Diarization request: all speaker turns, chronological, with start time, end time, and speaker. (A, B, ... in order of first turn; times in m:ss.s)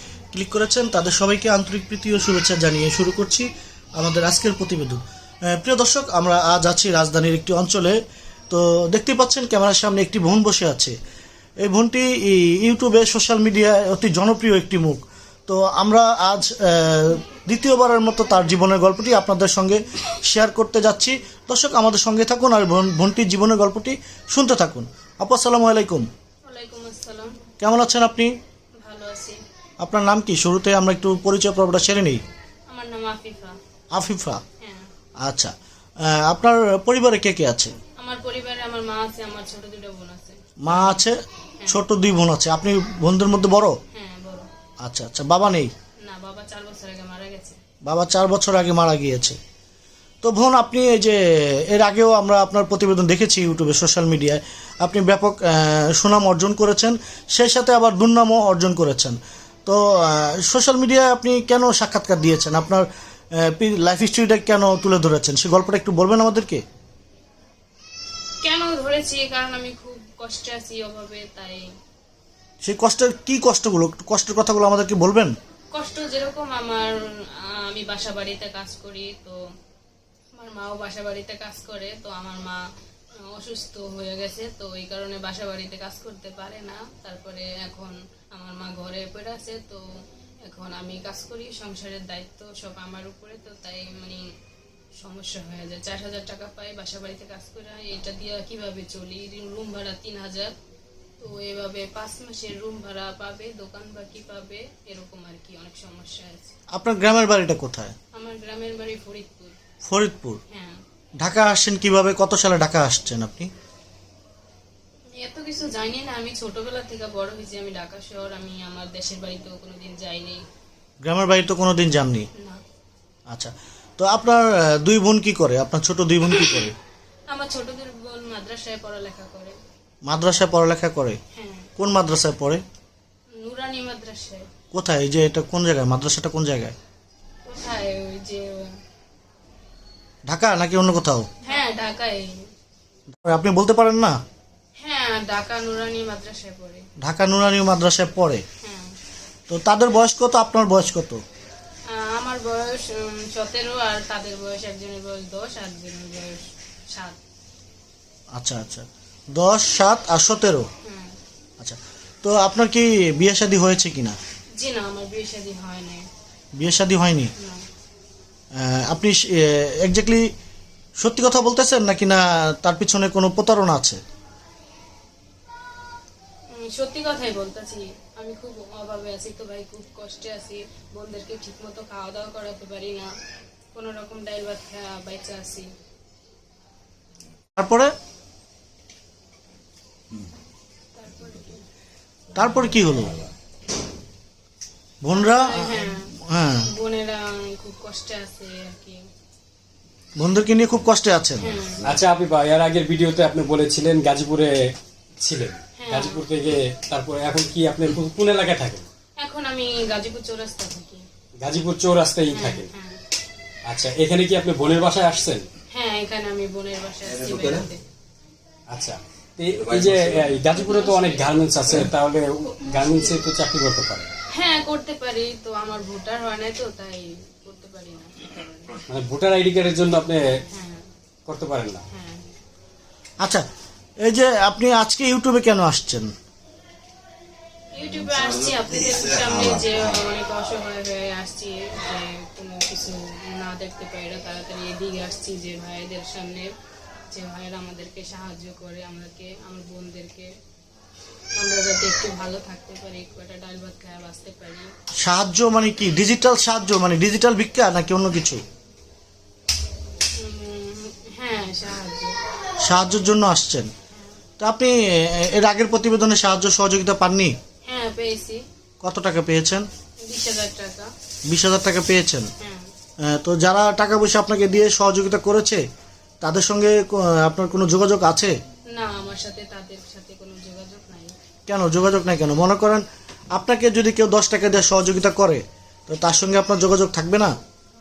0:00.3-0:08.0 A
0:08.5-0:11.0 A
0:11.6-0:26.1 A
0:26.4-0:27.5 B
0:27.6-0:28.3 A
0:28.8-0:29.4 B
0:29.8-0:32.2 A
0:32.7-0:33.6 B
0:33.9-0:34.4 A
0:34.6-0:34.9 B
0:35.2-0:37.7 A
0:38.0-0:41.1 B
0:40.6-0:43.8 A
0:41.6-0:41.8 B
0:43.9-0:44.5 B
0:44.8-0:45.7 A
0:46.0-0:47.6 B
0:47.8-0:49.4 A
0:50.2-1:06.6 A
1:08.4-1:11.7 B
1:12.6-1:15.3 A
1:15.7-1:19.4 B
1:20.3-1:29.9 B
1:30.4-1:34.3 B
1:35.0-1:40.6 B
1:41.2-1:46.6 B
1:46.7-1:48.0 A
1:48.1-1:49.6 B
1:49.8-1:50.4 A
1:50.5-1:50.8 B
1:51.2-1:53.5 A
1:55.1-2:00.4 B
2:01.0-2:02.3 A
2:02.4-2:02.6 B
2:03.3-2:06.8 A
2:06.2-2:06.7 B
2:07.3-2:09.6 B
2:10.0-2:11.2 A
2:11.3-2:11.7 B
2:11.8-2:12.6 A
2:13.3-2:14.5 B
2:14.7-2:16.8 A
2:17.4-2:18.8 B
2:20.3-2:21.3 A
2:21.4-2:22.4 B
2:23.1-2:24.2 A
2:24.8-2:26.9 B
2:27.0-2:28.4 A
2:28.6-2:29.0 B
2:29.5-2:31.2 A
2:31.9-2:37.2 B
2:38.3-2:40.7 A
2:40.8-2:41.2 B
2:41.6-2:44.2 A
2:44.6-2:46.1 B
2:46.6-2:47.3 A
2:47.4-2:47.7 B
2:48.5-2:50.3 A
2:51.0-2:54.0 A
2:56.5-3:03.1 B
3:03.7-3:05.7 B
3:07.6-3:07.9 A
3:11.0-3:11.7 B
3:12.3-3:13.2 A
3:15.0-3:16.7 A
3:15.1-3:19.0 B
3:20.2-3:21.6 A
3:21.4-3:21.8 B
3:21.8-3:24.6 C
3:25.2-3:28.9 C
3:25.8-3:26.2 B
3:29.2-3:31.0 B
3:31.4-3:32.7 C
3:32.3-3:33.0 B
3:33.7-3:35.5 C
3:35.7-3:37.8 B
3:38.7-3:44.2 C
3:40.6-3:41.5 B
3:42.5-3:43.2 B
3:44.3-3:48.8 B
3:48.9-3:50.2 C
3:50.5-3:50.9 B
3:51.3-3:51.8 C
3:51.9-3:52.3 B
3:54.0-3:56.1 A
3:57.7-4:06.5 B
4:07.1-4:10.3 B
4:11.3-4:14.7 B
4:15.0-4:18.4 A
4:20.2-4:22.2 B
4:22.6-4:23.7 A
4:24.4-4:27.4 A
4:27.6-4:28.4 B
4:28.8-4:29.6 A
4:30.0-4:30.9 B
4:31.3-4:32.3 A
4:32.4-4:32.7 B
4:33.0-4:35.6 A
4:36.2-4:38.3 A
4:38.7-4:41.2 B
4:41.5-4:47.3 A